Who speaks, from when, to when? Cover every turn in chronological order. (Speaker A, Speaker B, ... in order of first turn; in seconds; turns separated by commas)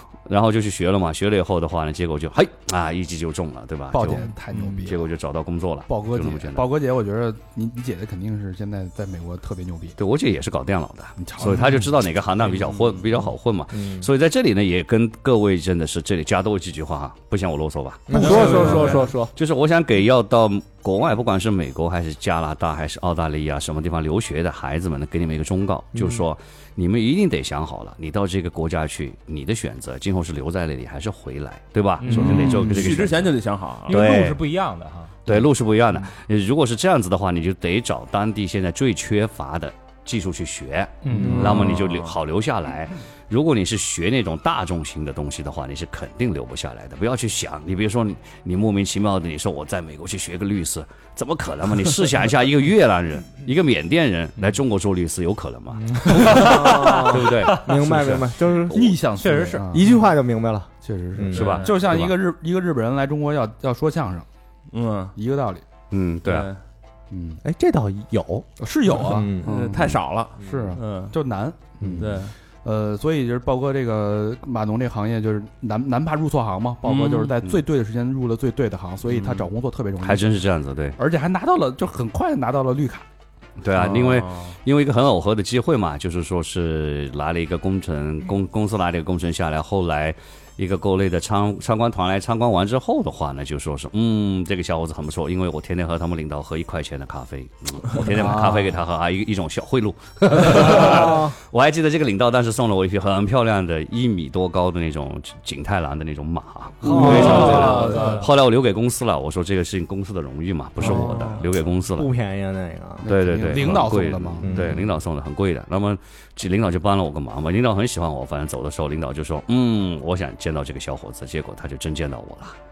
Speaker A: 0.3-4.2, Speaker B: 3.9-5.1, Speaker A: 4.8-6.7, Speaker B: 5.9-10.0, Speaker A: 10.0-33.3, Speaker B: 11.2-11.9, Speaker C: 13.7-14.1, Speaker C: 18.1-19.3, Speaker B: 18.1-19.0, Speaker D: 18.2-19.0, Speaker E: 18.2-18.9, Speaker C: 26.0-26.2, Speaker D: 32.0-32.5, Speaker E: 32.1-34.0, Speaker B: 32.1-32.8, Speaker D: 33.9-35.1, Speaker A: 33.9-34.4, Speaker A: 35.2-59.0, Speaker D: 41.0-41.7, Speaker E: 41.1-42.1, Speaker D: 56.0-57.6, Speaker C: 56.0-58.9, Speaker B: 58.7-59.9, Speaker D: 59.2-59.9, Speaker C: 59.7-61.5, Speaker B: 60.8-64.3, Speaker A: 61.3-62.1, Speaker E: 64.7-65.1, Speaker B: 65.1-65.6, Speaker A: 65.9-66.5, Speaker E: 66.2-66.6, Speaker B: 67.1-67.4, Speaker C: 67.4-69.6, Speaker B: 68.6-80.4, Speaker E: 69.4-71.1, Speaker C: 71.8-72.1, Speaker E: 72.0-72.3, Speaker E: 76.8-77.3, Speaker E: 79.1-79.4, Speaker A: 80.0-81.0, Speaker B: 81.0-83.1, Speaker A: 83.6-112.1, Speaker E: 83.8-84.5, Speaker B: 98.0-98.8, Speaker C: 100.7-101.3, Speaker C: 106.8-107.9, Speaker E: 106.9-108.2, Speaker B: 106.9-108.2, Speaker D: 107.1-108.2, Speaker C: 110.8-111.4, Speaker C: 112.0-113.1, Speaker B: 113.0-114.8, Speaker A: 113.0-122.5, Speaker C: 114.4-114.9